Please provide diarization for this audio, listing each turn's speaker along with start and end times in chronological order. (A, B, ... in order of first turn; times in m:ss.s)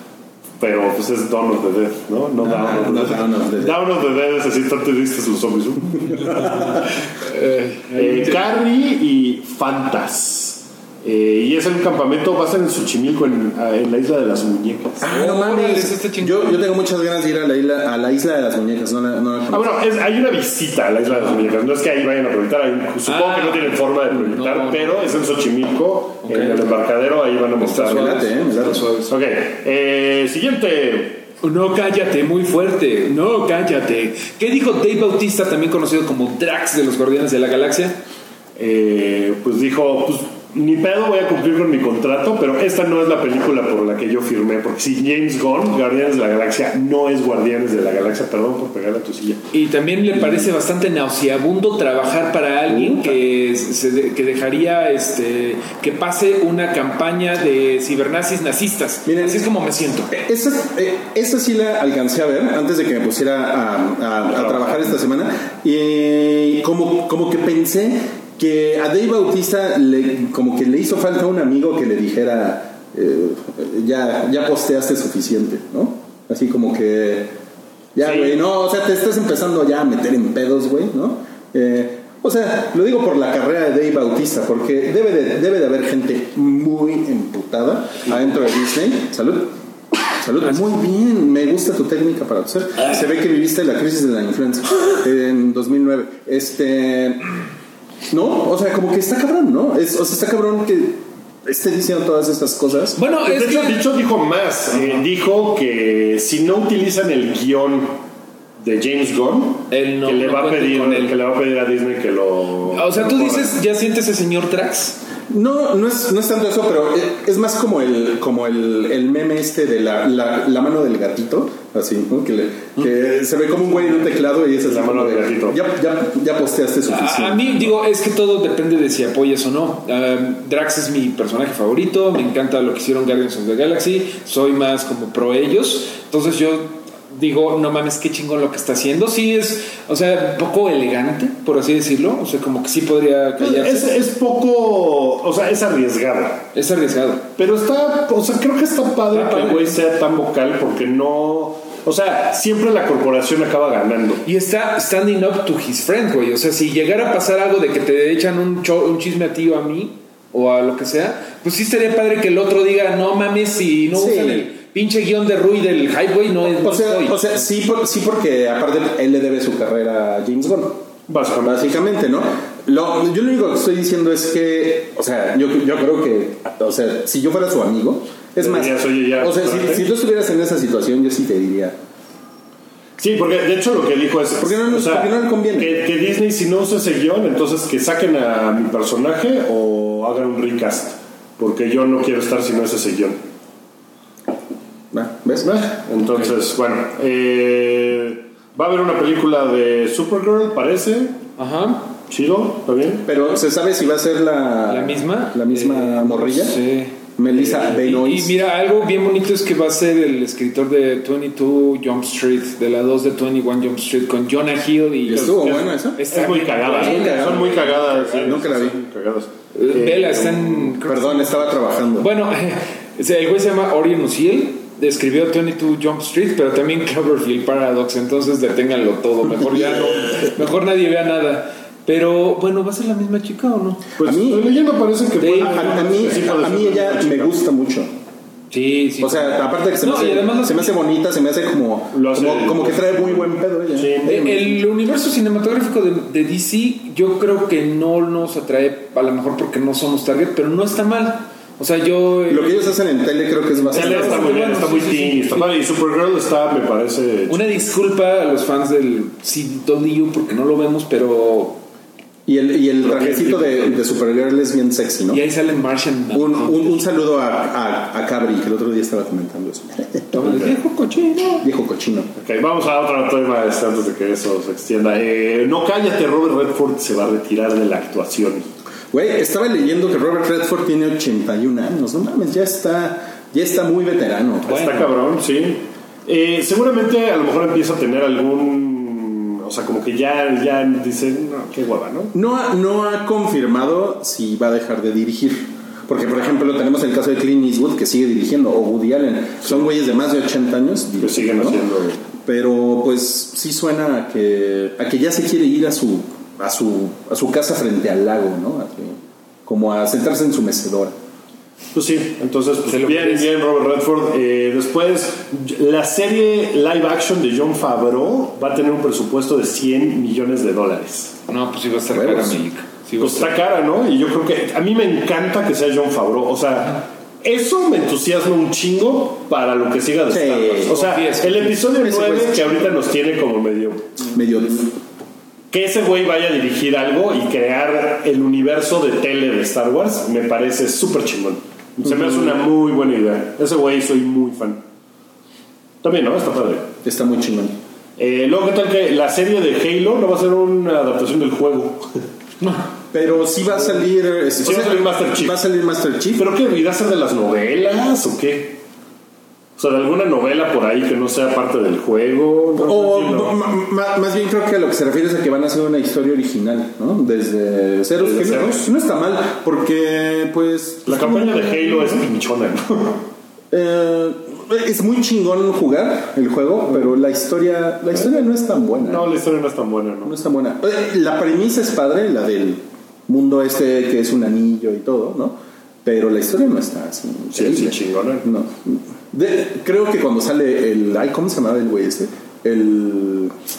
0:00.6-0:06.8 A
0:02.5-0:03.8 B
0:07.2-0:08.4 C
0:08.0-0:15.0 A
0:15.0-0:19.7 B
0:15.0-0:16.6 C
0:19.5-0:28.1 A
0:23.0-0:25.1 C
0:26.2-0:26.7 C
0:27.6-0:29.1 C
0:27.8-0:28.8 B
0:29.1-0:31.3 A
0:31.4-0:38.0 C
0:38.6-0:49.4 A
0:49.5-1:00.1 C
0:52.7-0:53.1 B
0:59.0-0:59.5 B
1:00.1-1:17.4 B
1:04.3-1:04.8 A
1:17.9-1:29.5 B
1:18.0-1:18.4 A
1:30.1-1:37.3 B
1:38.1-1:43.0 B
1:42.9-1:43.8 C
1:43.2-1:48.0 A
1:48.6-1:53.5 A
1:49.7-1:51.1 C
1:52.7-1:55.0 C
1:55.3-2:07.7 B
2:04.6-2:05.6 A
2:06.9-2:23.9 C
2:23.4-2:26.5 A
2:26.5-2:27.3 C
2:27.4-2:34.2 A
2:29.1-2:29.8 C
2:34.2-2:47.2 C
2:43.9-2:44.5 B
2:46.5-2:50.9 B
2:51.1-2:51.9 A
2:51.4-3:01.8 B
2:58.4-2:59.9 A
3:03.0-3:13.2 A
3:04.4-3:05.8 B
3:14.9-3:15.5 B
3:15.4-3:21.2 A
3:21.4-3:21.9 C
3:22.1-3:23.1 A
3:23.0-3:26.6 B
3:24.7-3:38.4 C
3:27.2-3:28.4 B
3:35.1-3:36.0 B
3:35.1-3:40.5 A
3:36.7-3:38.8 B
3:39.5-3:53.8 C
3:40.7-3:42.1 B
3:49.3-3:50.3 B
3:54.0-3:57.4 A
3:54.0-3:54.5 B
3:55.2-3:55.7 C
3:55.4-3:57.9 B
3:58.5-4:00.7 C
3:59.0-4:04.5 B
4:01.9-4:04.3 A
4:04.0-4:12.7 C
4:12.3-4:14.4 B
4:13.6-4:15.5 C
4:13.7-4:17.5 A
4:17.3-4:21.6 C
4:22.2-4:25.2 B
4:22.8-4:23.8 A
4:25.1-4:26.8 C
4:26.1-4:30.1 B
4:30.1-4:31.4 C
4:30.2-4:30.5 A
4:31.4-4:32.1 B
4:32.2-4:38.5 A
4:38.9-4:44.8 B
4:44.4-4:52.1 A
4:44.5-4:44.9 C
4:52.1-5:01.6 B
5:01.0-5:02.0 A
5:02.2-5:10.9 B
5:11.7-5:21.1 A
5:12.7-5:13.3 C
5:21.3-5:23.3 C
5:21.9-5:22.4 B
5:23.0-5:34.0 A
5:30.1-5:30.8 B
5:30.7-5:31.6 C
5:31.7-5:32.7 B
5:34.1-5:34.8 B
5:35.5-5:44.6 A
5:45.8-5:46.7 A
5:46.8-5:47.6 B
5:48.0-5:52.0 A
5:52.9-5:56.3 B
5:54.4-5:55.4 A
5:56.2-5:58.6 A
5:59.6-6:03.4 A
6:02.6-6:12.0 B
6:08.0-6:08.6 A
6:10.8-6:13.0 A
6:13.5-6:19.1 B
6:17.9-6:20.2 A
6:20.0-6:33.3 B
6:27.3-6:28.3 A